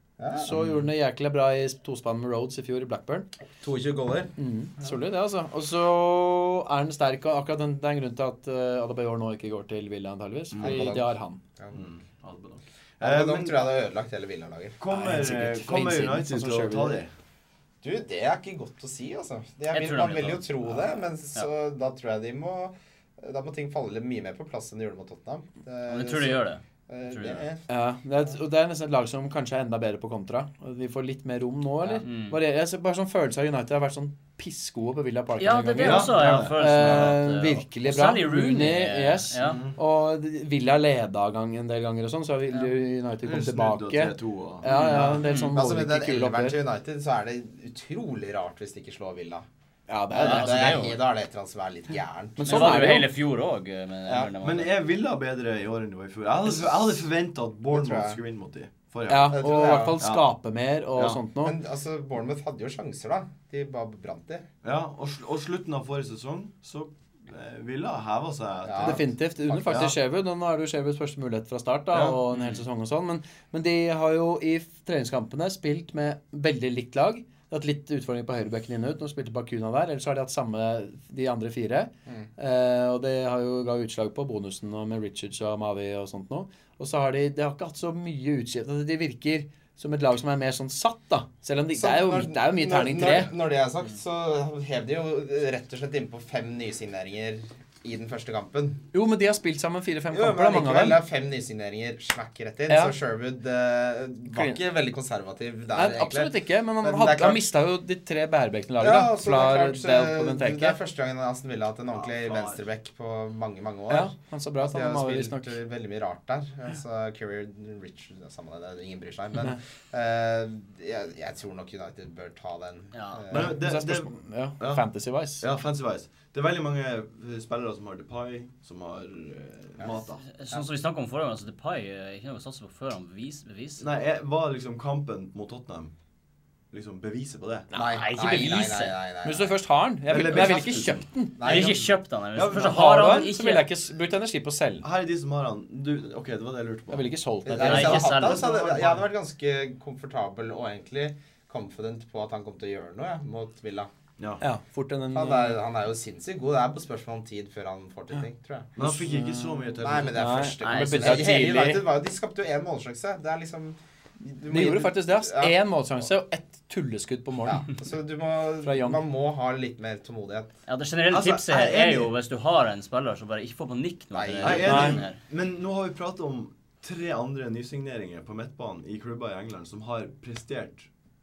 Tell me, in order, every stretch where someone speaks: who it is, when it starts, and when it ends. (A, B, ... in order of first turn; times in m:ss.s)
0:00.2-0:00.5 A
0:00.4-0:03.3 B
0:03.6-0:04.9 A
0:04.4-0:11.4 B
0:10.6-0:11.0 C
0:10.6-0:11.8 A
0:11.7-0:13.6 C
0:13.0-0:14.8 A
0:14.8-0:17.1 C
0:14.9-0:17.0 B
0:17.8-0:27.6 A
0:19.7-0:20.6 D
0:25.9-0:27.4 D
0:27.7-0:46.6 B
0:32.0-0:32.4 D
0:35.4-0:39.6 D
0:35.8-0:37.2 C
0:39.4-0:39.8 C
0:43.2-0:44.7 C
0:44.7-0:45.5 D
0:44.7-0:49.5 A
0:49.9-0:50.6 B
0:50.1-0:52.9 A
0:50.2-0:51.0 D
0:52.4-0:53.1 B
0:52.5-0:54.8 D
0:54.1-0:54.3 A
0:54.4-0:59.4 C
0:57.7-0:58.2 A
0:59.1-1:01.6 B
0:59.3-1:00.0 A
1:00.0-1:00.3 C
1:01.0-1:01.2 C
1:01.4-1:04.5 A
1:04.6-1:09.1 C
1:08.6-1:09.8 A
1:08.8-1:33.3 B
1:09.7-1:10.0 C
1:11.9-1:12.2 C
1:12.3-1:12.6 D
1:31.8-1:38.8 A
1:38.9-1:41.0 B
1:40.1-1:47.5 A
1:42.7-1:43.0 B
1:44.3-1:44.6 B
1:45.7-1:50.8 B
1:48.8-2:03.6 A
1:51.9-1:52.6 C
1:53.9-1:55.6 B
2:02.9-2:03.2 D
2:03.3-2:04.9 C
2:03.3-2:05.4 B
2:05.4-2:10.2 C
2:10.2-2:13.9 D
2:13.8-2:15.9 C
2:16.7-2:17.7 C
2:17.7-2:19.0 D
2:17.8-2:19.5 A
2:19.2-2:21.4 B
2:20.1-2:23.0 C
2:21.4-2:21.9 A
2:21.4-2:23.7 D
2:22.5-2:24.9 B
2:24.8-2:27.0 C
2:26.9-2:28.1 B
2:27.5-2:33.9 A
2:27.6-2:28.5 D
2:27.8-2:29.1 C
2:34.4-2:35.6 B
2:35.1-2:38.8 A
2:38.8-2:40.3 C
2:38.8-2:39.6 B
2:39.8-2:45.6 A
2:40.2-2:41.8 B
2:40.6-2:41.3 D
2:44.5-2:47.7 B
2:47.5-2:50.5 A
2:48.6-2:49.0 B
2:50.7-2:55.2 D
2:51.1-2:52.1 C
2:54.1-2:55.0 A
2:54.4-3:00.9 C
2:54.6-2:55.0 B